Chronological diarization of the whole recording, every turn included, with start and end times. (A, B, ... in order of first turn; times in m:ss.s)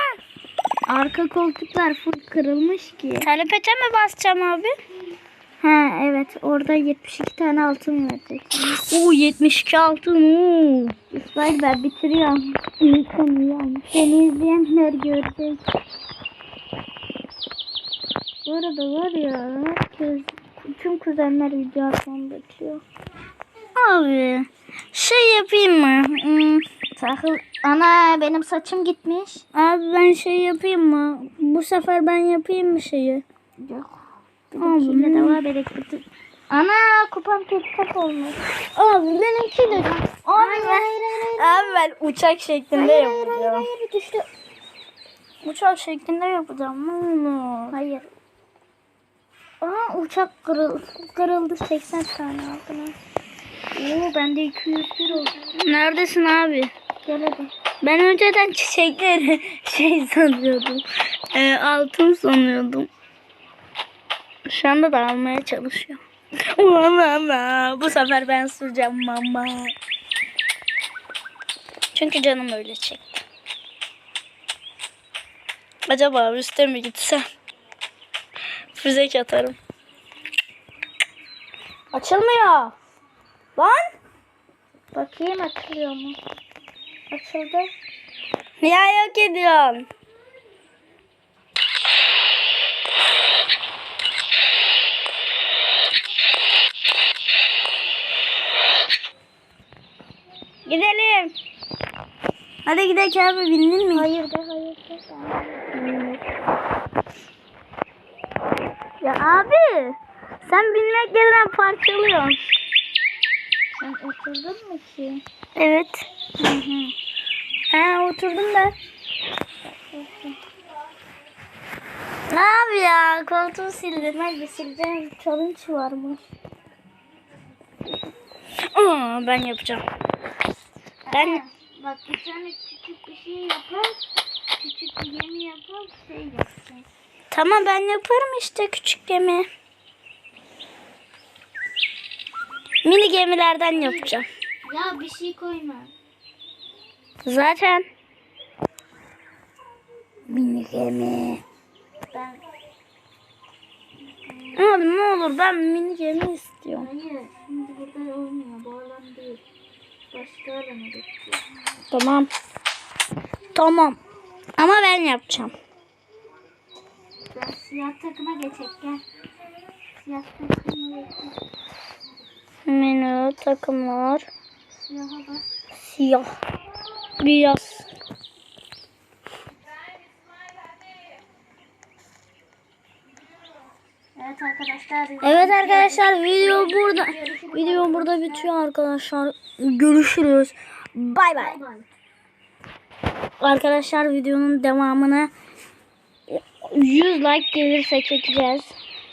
0:00.9-0:03.3 A
0:03.2-0:04.7 B
0:05.6-0:08.7 A
0:08.6-0:10.9 B
0:11.1-0:12.6 A
0:12.8-0:13.2 B
0:13.1-0:15.6 A
0:18.4-0:22.8 A
0:23.7-0:26.6 B
0:26.9-0:29.4 A
0:29.5-0:33.2 B
0:33.6-0:34.0 A
0:34.5-0:41.8 A
0:34.6-0:35.4 B
0:38.8-0:43.7 B
0:42.7-0:44.2 A
0:45.4-0:47.8 B
0:47.7-0:48.1 A
0:49.6-0:53.0 A
0:53.7-0:55.5 A
0:55.5-0:56.7 B
0:57.0-0:57.5 A
0:57.8-1:02.9 B
1:04.4-1:09.7 B
1:11.9-1:13.2 B
1:15.9-1:17.2 B
1:18.7-1:19.6 B
1:21.9-1:22.7 B
1:23.6-1:23.9 B
1:24.9-1:26.2 A
1:27.1-1:27.7 A
1:28.6-1:29.9 B
1:40.6-1:41.3 B
1:42.6-1:44.1 B
1:43.9-1:45.7 A
1:45.7-1:46.2 B
1:49.0-1:52.4 B
1:53.8-1:55.2 A
1:55.6-1:56.0 B
1:56.4-1:56.9 A
1:57.7-1:58.7 B
1:59.7-2:00.4 A
2:02.3-2:04.2 B
2:04.0-2:06.2 A
2:08.7-2:09.8 B
2:11.1-2:14.0 A
2:11.1-2:11.4 B
2:14.6-2:16.8 A
2:17.3-2:19.5 B
2:22.8-2:24.2 B
2:23.7-2:25.9 A
2:27.2-2:27.9 B
2:30.3-2:31.4 B
2:32.1-2:32.4 A
2:34.1-2:34.6 A
2:34.6-2:36.9 B
2:36.8-2:39.4 A
2:40.1-2:41.4 A
2:41.9-2:42.3 B
2:43.5-2:44.0 B
2:44.6-2:45.5 B
2:47.3-2:49.0 A
2:49.9-2:51.4 A
2:52.6-2:54.3 B
2:54.7-2:55.5 A
2:55.8-2:56.3 B
2:57.2-2:57.9 B
3:04.2-3:08.5 A
3:05.2-3:11.6 B
3:11.3-3:11.9 A
3:13.4-3:15.3 B
3:16.3-3:18.7 B